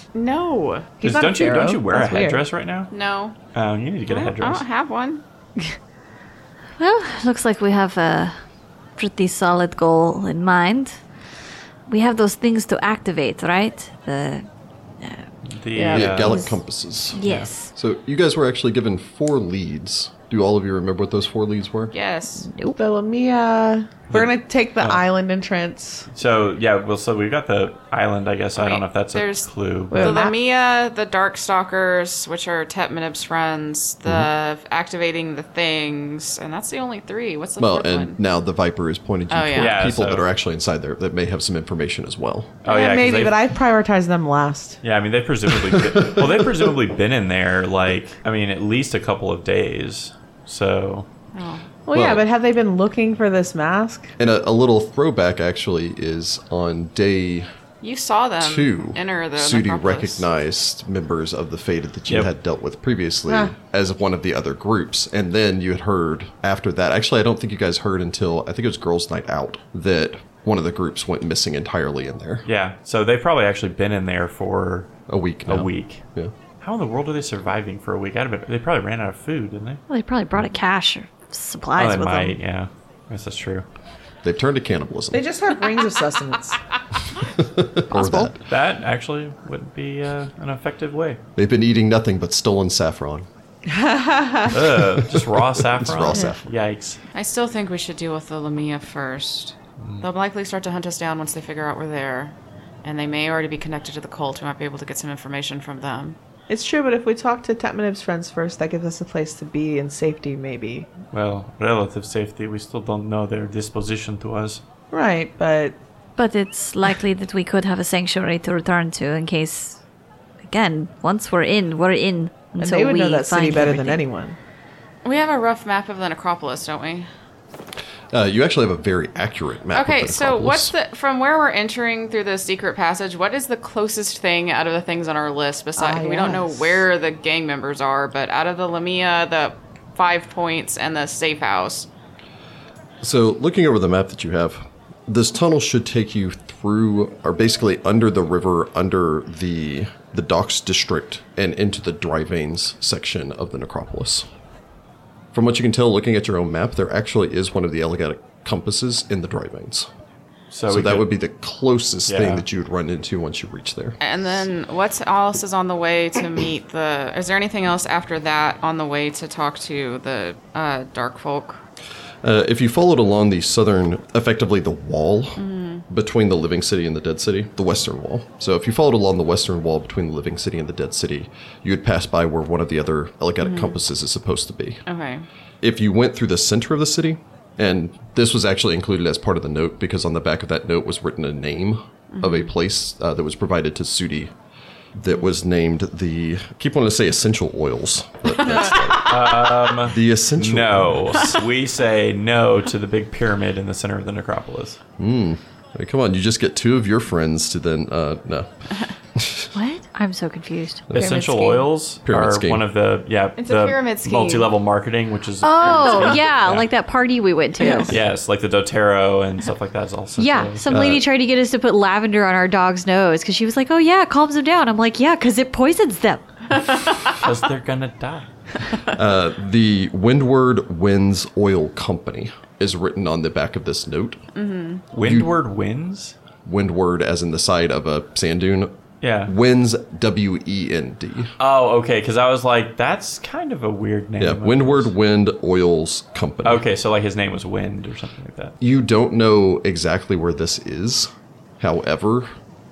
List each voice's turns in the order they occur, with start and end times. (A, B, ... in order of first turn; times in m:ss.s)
0:00.1-0:00.9 A
0:01.0-0:02.4 B
0:01.0-0:02.9 C
0:02.9-0:03.4 A
0:03.5-0:04.6 C
0:04.1-0:05.2 A
0:06.8-0:08.4 D
0:09.0-0:11.0 D
0:11.9-0:14.5 D
0:15.0-0:16.6 D
0:15.4-0:16.4 C
0:15.9-0:17.2 E
0:17.1-0:17.7 D
0:17.2-0:17.5 C
0:17.7-0:21.9 E
0:21.9-0:22.5 A
0:22.4-0:22.8 D
0:22.8-0:26.1 B
0:24.1-0:25.0 C
0:26.1-0:30.2 C
0:28.6-0:38.2 A
0:29.9-0:30.4 B
0:37.6-0:42.6 E
0:39.3-0:39.8 A
0:39.6-0:40.3 C
0:42.6-0:43.4 C
0:42.7-0:44.8 B
0:44.8-0:51.1 C
0:45.7-0:46.4 E
0:51.3-0:51.7 A
0:51.9-0:54.1 B
0:51.9-0:52.2 E
0:54.2-0:57.5 E
0:57.8-1:00.3 A
0:58.4-1:12.5 E
1:03.3-1:03.5 B
1:12.5-1:15.0 C
1:15.1-1:16.3 E
1:15.5-1:16.1 C
1:16.6-1:19.8 C
1:19.9-1:22.4 D
1:21.8-1:23.7 C
1:24.2-1:25.2 E
1:25.1-1:26.6 B
1:27.3-1:28.4 E
1:27.9-1:28.3 D
1:28.5-1:31.2 C
1:31.4-1:33.3 E
1:33.7-1:34.6 B
1:34.5-1:37.0 C
1:34.6-1:36.5 E
1:37.1-1:46.2 A
1:39.8-1:40.1 C
1:46.5-1:50.9 B
1:51.1-1:54.6 C
1:54.9-1:55.8 B
1:56.2-1:59.8 D
2:00.4-2:04.0 D
2:02.6-2:04.4 B
2:05.0-2:07.1 A
2:08.1-2:10.7 E
2:09.7-2:21.9 A
2:15.8-2:16.8 B
2:23.0-2:34.3 E
2:35.3-2:39.9 E
2:40.5-2:41.1 C
2:40.7-2:44.0 E
2:42.1-2:42.4 C
2:44.0-2:51.6 A
2:52.2-3:04.8 E
2:55.4-2:55.8 A
3:03.4-3:03.8 A
3:04.9-3:05.3 A
3:05.6-3:14.3 E
3:12.1-3:12.5 A
3:14.9-3:21.3 E
3:18.4-3:18.8 A
3:19.0-3:24.8 C
3:25.0-3:28.5 E
3:29.2-3:29.5 E
3:29.5-3:31.6 D
3:30.9-3:31.2 E
3:30.9-3:36.7 C
3:32.0-3:32.6 E
3:33.4-3:34.5 A
3:35.4-3:38.0 D
3:35.7-3:36.2 A
3:37.6-3:37.9 B
3:37.9-3:41.0 C
3:40.2-3:46.2 D
3:40.7-3:41.0 E
3:47.1-3:48.3 C
3:48.9-3:54.2 E
3:54.4-3:54.9 A
3:54.9-3:56.2 C
3:55.0-3:55.4 E
3:56.4-3:58.7 E
3:59.0-3:59.3 C
3:59.3-4:01.3 E
4:01.4-4:04.9 C
4:04.2-4:06.6 E
4:06.4-4:08.6 C
4:08.6-4:12.3 E